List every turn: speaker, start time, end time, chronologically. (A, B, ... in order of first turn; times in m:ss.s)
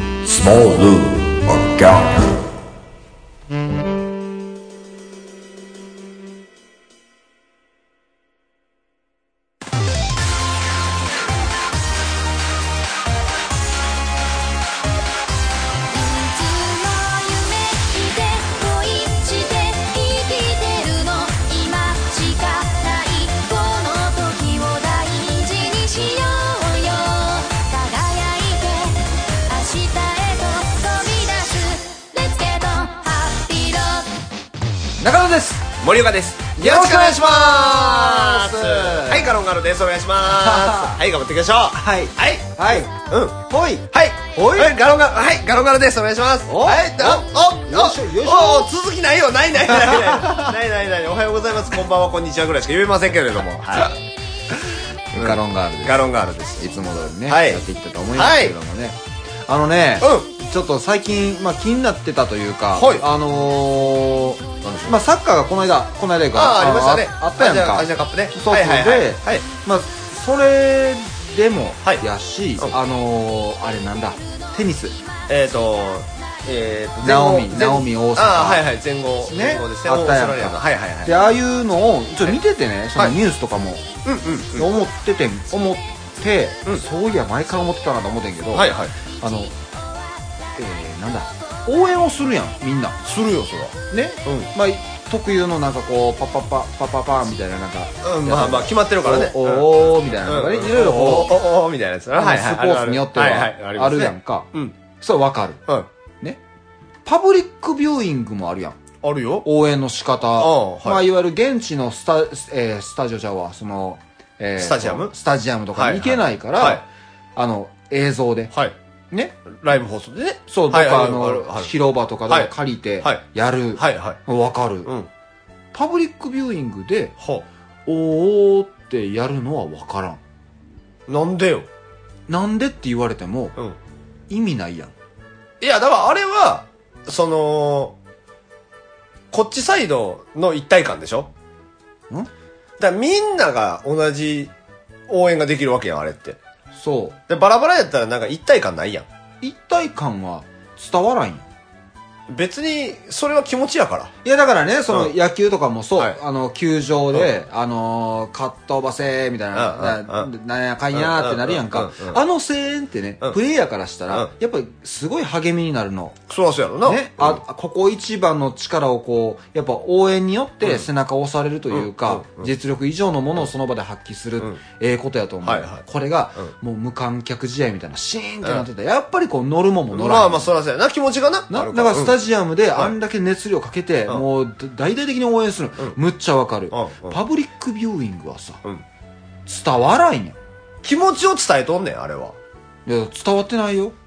0:15.9-0:34.1 A
0:35.0-0:35.7 B
0:35.8-0:43.4 C
0:36.6-0:39.3 B
0:40.4-0:41.0 B
0:41.8-0:42.9 B
0:43.5-0:44.7 B
0:43.9-0:54.0 C
0:46.5-0:48.7 B
0:49.8-0:50.5 B
0:55.1-0:56.0 B
0:55.1-0:56.7 C
0:56.6-1:15.0 B
0:57.3-0:57.6 C
0:58.1-0:58.6 C
1:00.0-1:00.3 C
1:02.7-1:03.0 C
1:04.6-1:05.0 C
1:06.3-1:09.4 C
1:15.3-1:21.2 C
1:17.0-1:18.7 B
1:19.3-1:23.9 B
1:24.0-1:24.7 C
1:24.6-1:29.6 B
1:28.5-1:28.9 C
1:30.6-1:33.0 B
1:33.0-1:34.5 C
1:33.9-1:41.4 B
1:38.0-1:44.8 C
1:42.2-1:45.6 B
1:47.0-1:48.8 B
1:49.0-1:49.5 C
1:49.4-1:56.8 B
1:50.4-1:51.1 C
1:54.6-1:55.1 C
1:55.7-1:56.8 C
1:57.4-1:58.5 B
1:59.1-1:59.4 B
1:59.5-2:01.7 C
2:00.5-2:04.9 B
2:02.3-2:03.2 C
2:03.8-2:04.2 C
2:05.7-2:07.1 B
2:07.2-2:07.5 C
2:07.9-2:10.2 B
2:11.1-2:11.7 C
2:12.3-2:13.6 B
2:14.3-2:14.9 B
2:15.6-2:18.0 C
2:19.3-2:21.3 C
2:22.8-2:24.5 C
2:25.1-2:26.4 C
2:26.8-2:27.2 B
2:27.3-2:29.1 C
2:29.4-2:31.4 B
2:32.3-2:34.1 C
2:34.2-2:46.2 B
2:39.5-2:40.3 C
2:40.9-2:42.2 C
2:46.3-2:47.4 C
2:46.8-3:00.5 B
2:50.6-2:50.9 C
2:51.7-2:52.5 C
2:55.4-2:55.8 C
2:59.9-3:02.2 C
3:01.5-3:08.6 B
3:06.7-3:07.2 C
3:09.5-3:10.4 B
3:10.8-3:12.4 C
3:12.9-3:14.0 B